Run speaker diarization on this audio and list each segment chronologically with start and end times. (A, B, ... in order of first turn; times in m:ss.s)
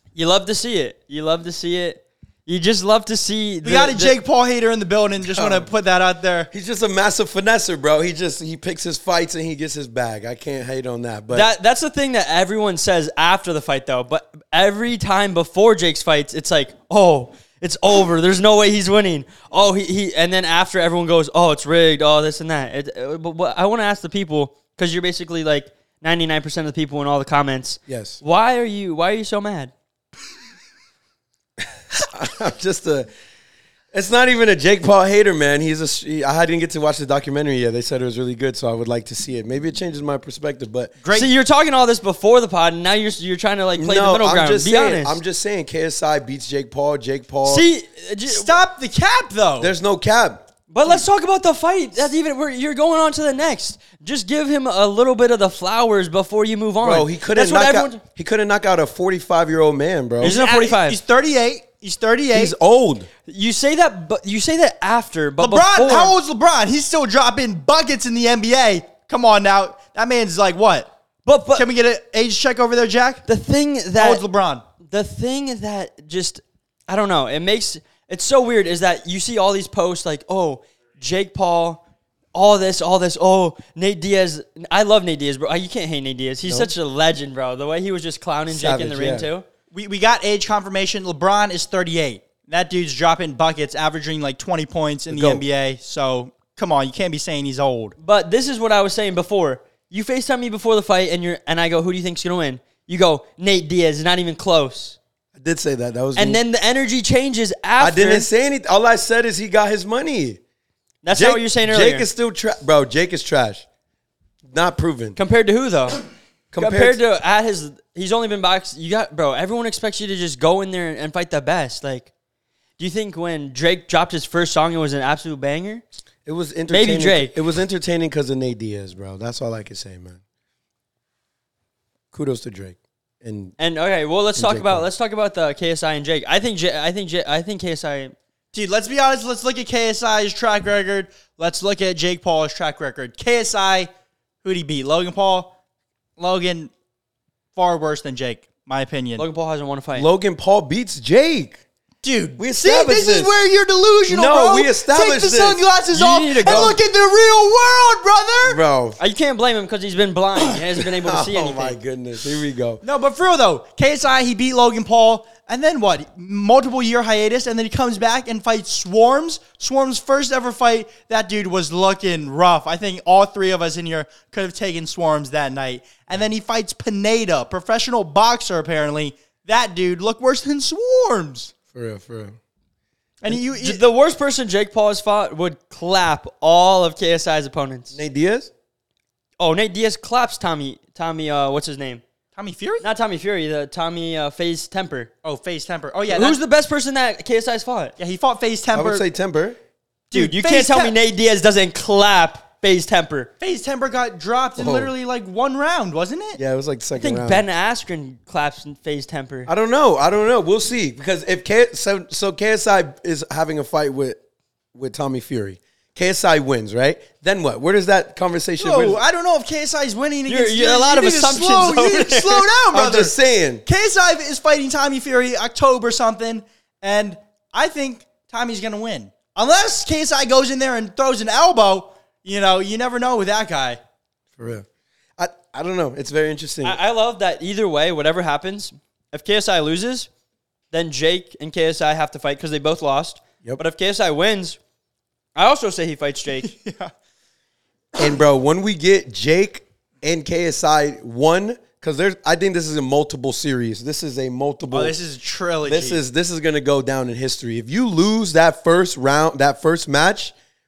0:00.1-0:04.2 A
0:03.6-0:06.5 B
0:05.3-0:05.7 C
0:06.5-0:11.5 C
0:11.3-0:29.7 A
0:27.9-0:28.2 C
0:32.0-0:33.1 C
0:33.9-0:40.9 C
0:41.0-0:41.3 B
0:41.1-0:45.2 A
0:43.8-0:47.6 C
0:47.4-0:48.6 A
0:48.2-0:49.7 B
0:49.6-0:50.5 C
0:50.7-0:58.0 A
0:56.8-1:00.4 C
1:00.2-1:01.0 A
1:00.2-1:02.5 B
1:02.3-1:03.1 C
1:03.2-1:06.1 A
1:05.4-1:10.9 B
1:11.2-1:11.6 A
1:11.5-1:13.2 B
1:13.2-1:14.2 A
1:14.0-1:14.6 B
1:14.8-1:21.8 A
1:22.3-1:29.5 A
1:26.4-1:26.7 C
1:28.5-1:29.3 C
1:29.7-1:38.0 B
1:35.1-1:35.4 C
1:38.0-1:45.0 A
1:45.4-1:46.4 C
1:46.1-1:48.3 A
1:47.8-1:50.4 C
1:51.0-1:52.1 A
1:51.1-1:53.6 C
1:54.5-1:55.2 C
1:55.2-1:56.0 A
1:56.5-1:57.0 C
1:56.5-2:02.1 A
2:02.8-2:05.8 A
2:06.2-2:10.2 C
2:06.7-2:07.4 A
2:12.1-2:13.5 C
2:13.6-2:18.1 A
2:14.4-2:14.9 C
2:18.5-2:23.9 B
2:24.4-2:25.5 B
2:26.2-2:26.7 B
2:27.5-2:29.2 B
2:29.2-2:30.1 A
2:29.9-2:31.6 C
2:32.0-2:38.6 B
2:32.4-2:33.3 C
2:34.1-2:35.7 C
2:35.9-2:36.8 A
2:36.4-2:36.8 C
2:38.4-2:39.0 C
2:39.0-2:41.8 A
2:40.7-2:42.8 C
2:42.8-3:01.5 B
3:01.7-3:02.4 C
3:03.2-3:03.8 B
3:03.3-3:08.0 A
3:07.9-3:08.5 C
3:09.4-3:12.0 A
3:12.3-3:12.8 B
3:12.8-3:15.1 A
3:15.2-3:16.4 B
3:16.1-3:17.9 A
3:18.0-3:19.0 B
3:18.7-3:19.6 C
3:20.1-3:20.9 B
3:20.1-3:23.3 A
3:23.4-3:26.4 B
3:24.6-3:24.9 C
3:26.4-3:27.4 C
3:27.0-3:29.5 A
3:29.4-3:34.2 C
3:34.7-3:39.0 C
3:38.6-3:43.1 B
3:40.3-3:42.5 A
3:42.7-3:43.6 C
3:43.6-3:53.8 B
3:54.4-3:54.6 C
3:55.2-3:56.8 C
3:56.6-4:00.1 A
4:00.7-4:04.6 A
4:05.4-4:06.5 A
4:06.4-4:06.9 B
4:08.0-4:15.0 C
4:14.7-4:16.0 B
4:15.6-4:20.3 C